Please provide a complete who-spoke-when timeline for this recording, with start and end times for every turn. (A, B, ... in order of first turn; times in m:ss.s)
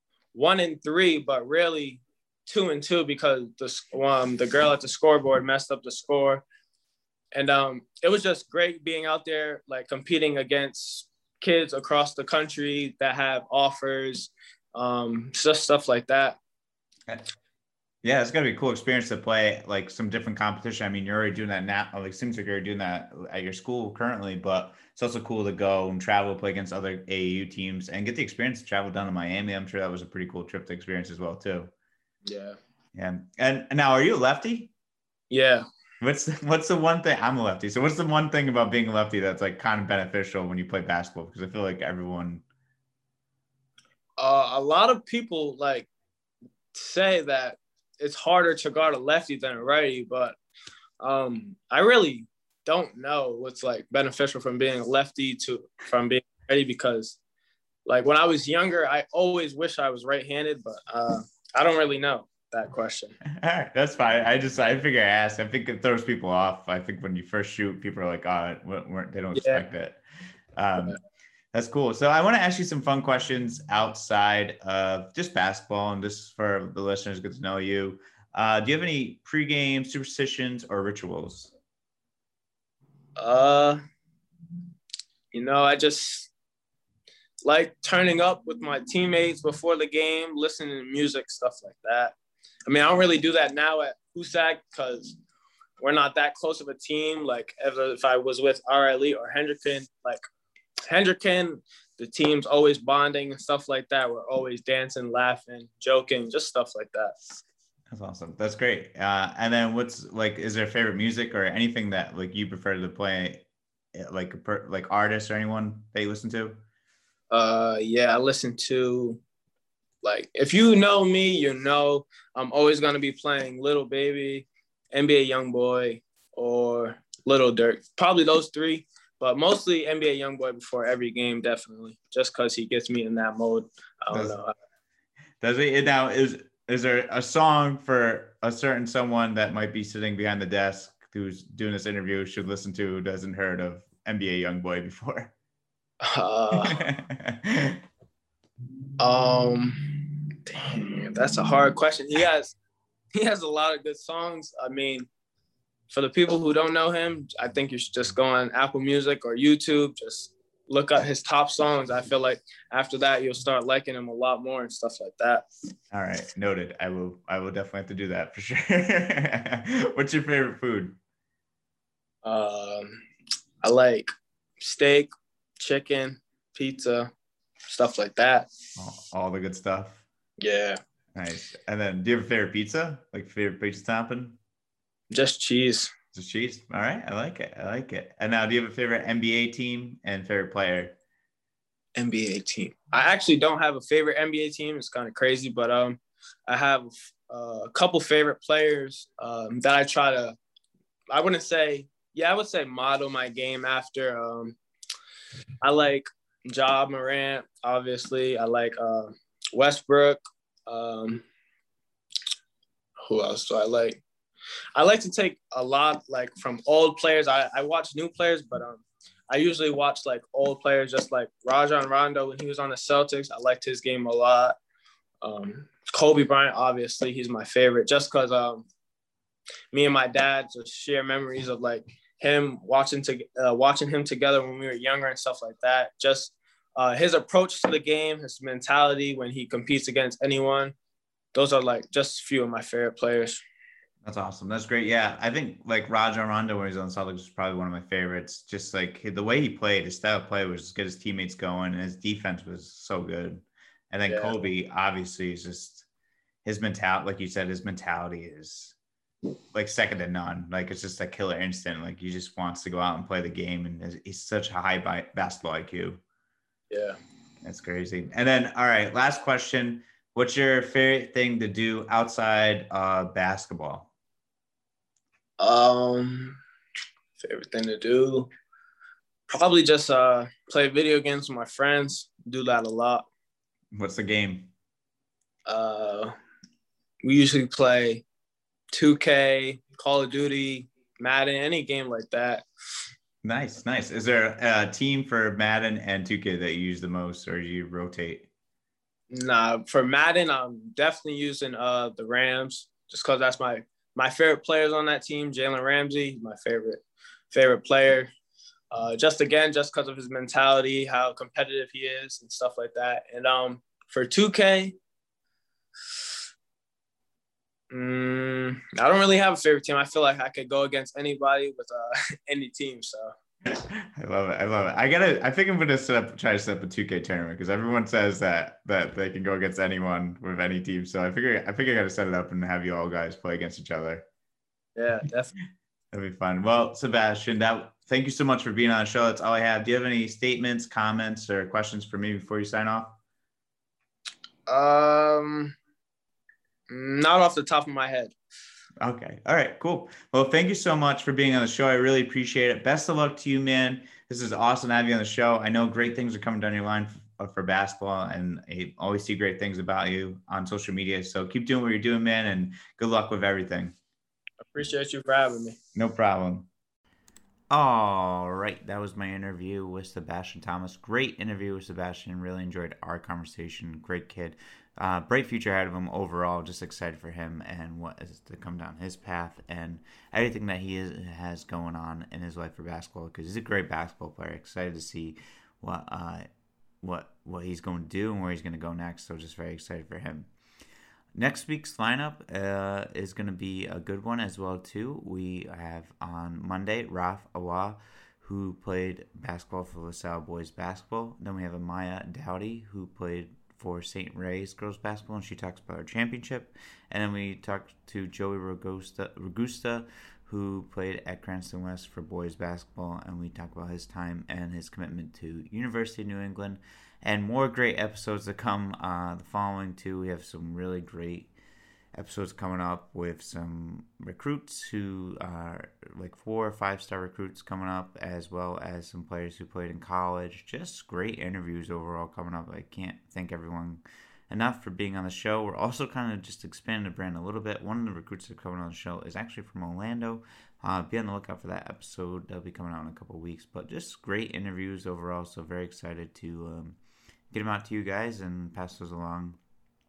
0:00.3-0:06.4 A
0:07.3-0:16.4 A
0:18.0-0:31.7 B
0:32.2-0:32.6 A
0:32.9-0:34.7 B
0:35.3-0:35.6 A
0:36.0-0:42.4 B
0:44.2-0:45.9 A
0:46.7-0:50.4 A
0:51.0-0:57.2 A
0:57.8-1:03.2 A
1:03.2-1:10.0 B
1:09.3-1:09.6 A
1:10.6-1:11.0 B
1:11.5-1:21.5 B
1:23.2-1:23.8 A
1:25.3-1:26.3 A
1:27.4-1:32.1 A
1:32.7-1:35.2 A
1:35.8-1:40.2 A
1:40.9-1:47.2 A
1:47.9-1:53.4 B
1:53.9-1:56.6 B
1:57.3-1:59.2 A
2:00.0-2:14.5 A
2:15.4-2:25.3 B
2:26.0-2:26.8 A
2:26.7-2:27.8 B
2:29.0-2:32.6 A
2:33.1-2:35.1 A
2:35.9-2:45.4 A
2:45.9-2:51.0 B
2:52.2-2:53.0 A
2:53.6-2:57.1 A
2:57.7-2:58.5 A
2:58.8-3:00.0 B
3:00.4-3:00.8 A
3:01.1-3:04.4 B
3:05.1-3:05.9 A
3:06.1-3:11.0 B
3:12.0-3:20.4 A
3:21.1-3:24.6 A
3:25.6-3:31.2 A
3:33.0-3:34.0 A
3:34.7-3:44.6 A
3:45.2-3:48.7 A
3:49.7-4:00.7 A
4:01.3-4:03.4 A
4:04.0-4:15.8 B
4:14.1-4:14.4 A
4:16.4-4:18.8 B
4:19.5-4:26.0 B
4:26.7-4:27.0 A
4:27.4-4:33.9 B
4:35.4-4:36.4 A
4:37.2-4:38.3 A
4:39.3-4:43.1 A
4:43.7-4:44.5 B
4:45.5-4:46.1 A
4:47.0-4:48.0 A
4:48.7-4:52.4 A
4:53.2-4:58.3 B
4:59.1-5:08.1 A
5:08.7-5:14.8 A
5:17.7-5:23.1 A
5:23.5-5:34.0 B
5:34.8-5:35.3 A
5:35.9-5:43.0 B
5:44.5-5:45.6 A
5:46.7-5:48.1 A
5:48.8-6:03.8 B
6:04.5-6:05.6 A
6:05.7-6:06.5 B
6:07.5-6:26.3 B
6:26.8-6:30.3 B
6:31.2-7:01.3 B
7:01.9-7:26.8 B
7:27.3-7:29.4 B